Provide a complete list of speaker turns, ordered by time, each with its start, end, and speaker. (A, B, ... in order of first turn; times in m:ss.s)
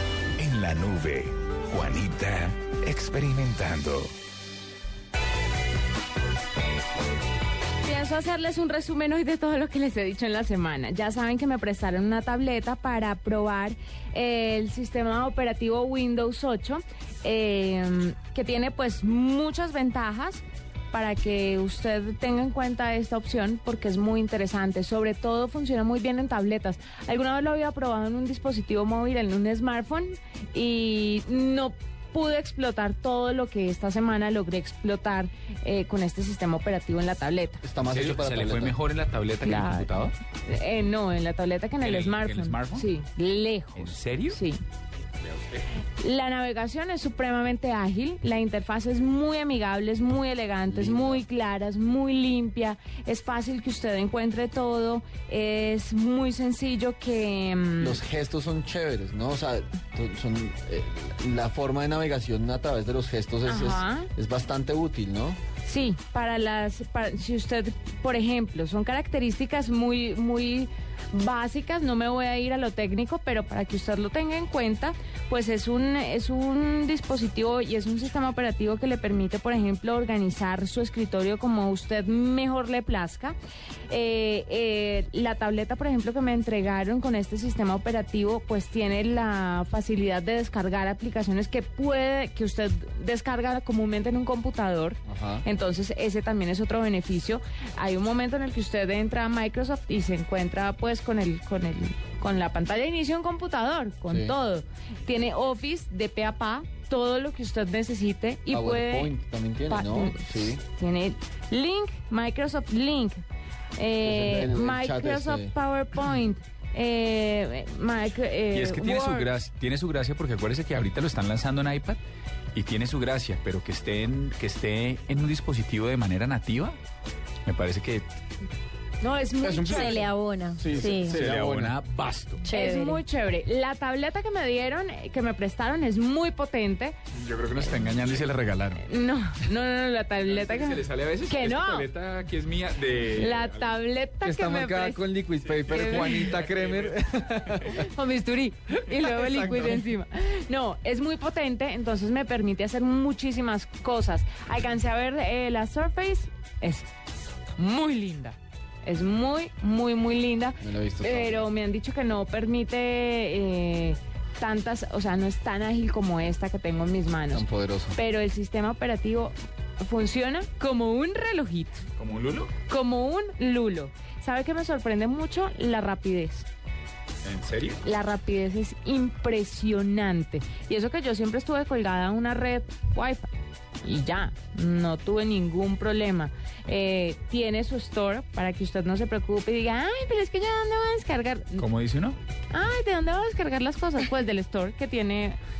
0:00.4-0:04.1 A
0:07.8-0:37.6 B
0:37.6-0:38.8 C
0:37.8-0:40.1 D
0:39.4-0:44.6 B
0:41.8-0:42.9 D
0:43.7-0:44.4 D
0:46.0-0:58.0 B
0:50.7-0:51.2 C
0:57.8-1:05.4 C
1:03.4-1:04.1 B
1:05.6-1:23.3 B
1:23.9-1:49.1 B
1:35.1-1:35.4 C
1:44.1-1:44.3 C
1:48.5-1:50.6 C
1:49.7-1:53.2 B
1:53.8-1:59.3 B
1:54.0-1:55.5 C
1:58.5-2:02.0 D
2:02.5-2:06.8 D
2:07.4-2:08.0 D
2:09.0-2:10.1 B
2:09.4-2:10.0 C
2:09.5-2:11.2 E
2:10.6-2:11.8 C
2:10.7-2:12.4 D
2:12.4-2:13.0 E
2:12.5-2:17.0 B
2:17.1-2:18.8 D
2:18.8-2:21.9 B
2:20.2-2:23.6 D
2:23.2-2:25.0 B
2:24.2-2:27.8 C
2:25.6-2:27.0 D
2:25.7-2:26.4 B
2:27.6-2:36.9 B
2:37.6-2:51.8 B
2:40.6-2:41.5 C
2:47.3-2:48.0 C
2:52.0-2:52.5 D
2:52.7-2:56.5 B
2:57.2-2:57.8 D
2:57.8-3:03.3 B
3:03.8-3:11.7 B
3:11.6-3:12.2 D
3:12.5-3:15.4 B